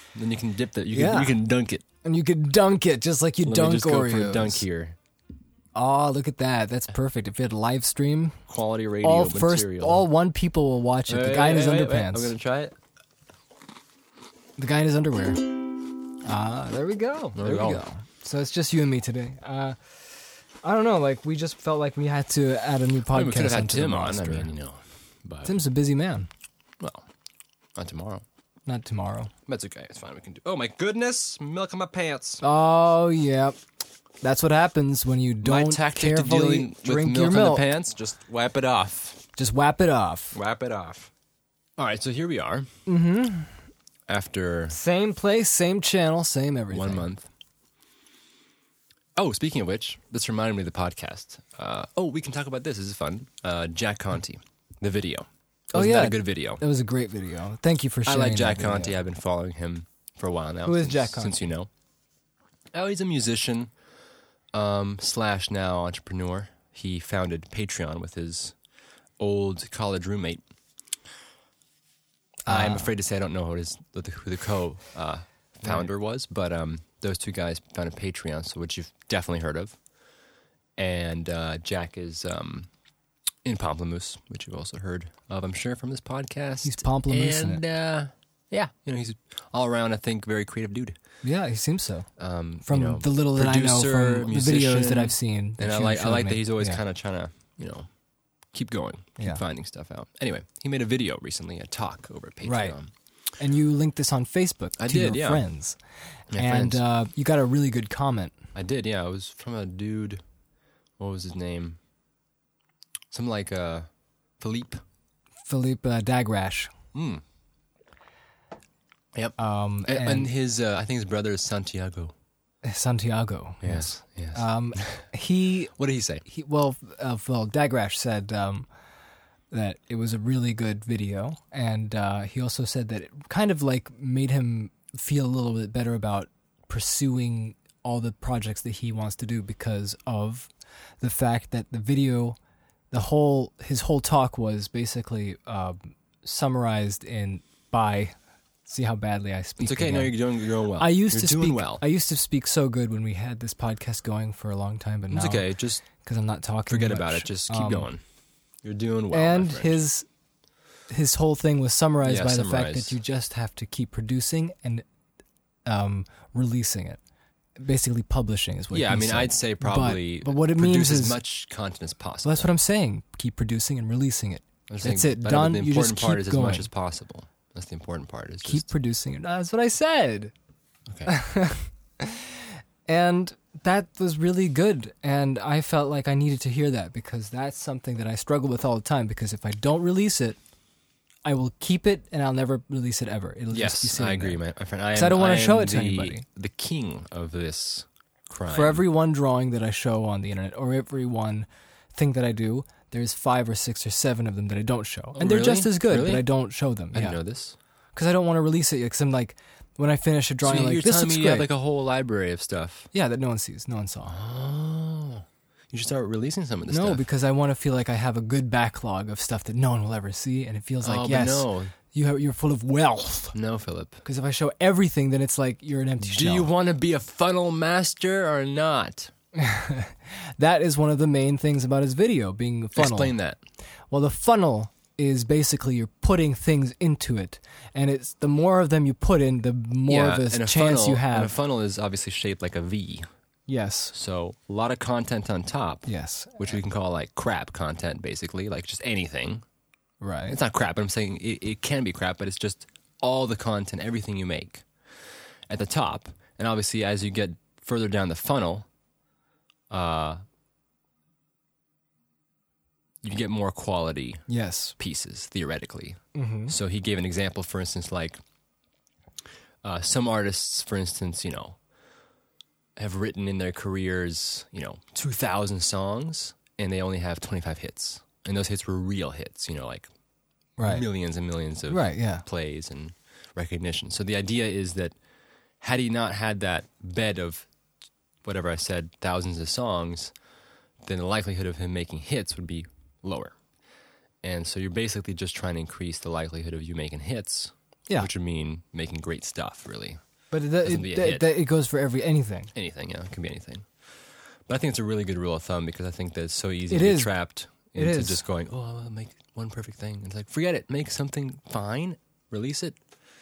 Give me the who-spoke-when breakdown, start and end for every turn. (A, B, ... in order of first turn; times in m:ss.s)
0:00.1-0:01.8 A
0:00.9-0:01.4 B
0:02.0-0:04.6 B
0:03.4-0:05.0 A
0:05.7-0:08.4 B
0:08.5-0:10.0 A
0:09.0-0:12.4 B
0:11.1-0:12.7 A
0:14.6-0:15.6 B
0:16.2-0:20.0 B
0:17.4-0:17.8 A
0:20.6-0:24.5 B
0:23.1-0:25.6 A
0:25.4-0:26.3 B
0:26.8-0:27.1 A
0:27.8-0:28.2 A
0:28.7-0:29.3 B
0:29.5-0:32.4 A
0:32.4-0:33.6 B
0:34.2-0:37.7 B
0:35.4-0:39.2 A
0:39.4-0:40.4 B
0:40.3-0:41.1 A
0:41.8-0:42.7 A
0:42.9-0:43.5 B
0:44.1-0:44.8 A
0:44.7-0:47.1 B
0:46.7-0:47.3 A
0:49.2-0:56.6 A
0:55.7-0:59.0 B
0:58.0-1:01.7 A
1:00.6-1:01.4 B
1:02.7-1:03.7 A
1:04.5-1:08.6 A
1:09.2-1:10.4 A
1:12.5-1:12.9 B
1:12.5-1:19.8 A
1:20.8-1:22.7 A
1:23.4-1:31.0 A
1:26.6-1:27.6 B
1:31.2-1:32.1 B
1:32.2-1:37.9 A
1:32.6-1:36.8 B
1:38.5-1:42.9 A
1:42.4-1:42.8 B
1:43.4-1:45.8 B
1:44.8-1:45.4 A
1:46.3-1:46.8 A
1:46.4-1:48.4 B
1:48.5-1:50.2 A
1:51.0-1:51.8 A
1:53.1-1:53.9 A
1:54.4-1:54.8 A
1:55.5-1:56.7 B
1:56.9-1:57.2 A
1:59.2-2:02.1 A
1:59.4-2:00.3 B
2:02.6-2:05.7 B
2:03.6-2:05.1 A
2:05.8-2:06.2 A
2:06.2-2:08.7 B
2:09.5-2:20.5 B
2:21.0-2:22.4 B
2:22.9-2:28.2 B
2:28.7-2:30.2 B
2:29.6-2:31.8 A
2:30.8-2:37.9 B
2:35.1-2:35.8 A
2:36.7-2:38.0 A
2:38.6-2:39.8 A
2:39.1-2:40.1 B
2:40.9-2:44.8 B
2:42.0-2:43.0 A
2:45.7-2:47.0 B
2:47.6-2:51.2 B
2:48.7-2:52.5 A
2:52.2-2:56.7 B
2:54.7-2:58.7 A
2:58.4-3:00.3 B
3:01.0-3:10.4 B
3:11.2-3:14.4 B
3:13.5-3:18.8 A
3:14.9-3:16.2 B
3:18.5-3:27.2 B
3:25.2-3:26.3 A
3:26.9-3:27.6 A
3:28.0-3:31.5 B
3:30.4-3:32.9 A
3:32.9-3:34.2 B
3:34.1-3:37.0 A
3:36.7-3:43.4 B
3:40.8-3:41.7 A
3:43.3-3:44.0 A
3:44.0-3:46.5 B
3:46.0-3:49.1 A
3:49.4-3:53.1 B
3:52.7-3:53.4 A
3:53.9-4:01.4 B
3:59.9-4:03.1 A
4:03.5-4:03.9 B
4:03.9-4:09.4 A
4:05.9-4:06.4 B
4:10.0-4:10.4 B
4:10.3-4:14.7 A
4:15.5-4:18.7 A
4:19.7-4:20.2 A
4:23.0-4:24.2 A
4:24.3-4:24.8 B
4:24.8-4:28.2 A
4:26.2-4:26.6 B
4:29.6-4:31.6 A
4:32.8-4:39.9 A
4:40.6-4:40.9 B
4:40.6-4:45.0 A
4:41.7-4:42.2 B
4:45.6-4:47.5 A
4:48.2-4:50.1 A
4:50.8-4:53.4 A
4:54.2-5:00.0 A
5:00.3-5:02.5 B
5:00.6-5:01.4 A
5:02.5-5:12.8 A
5:06.7-5:08.2 B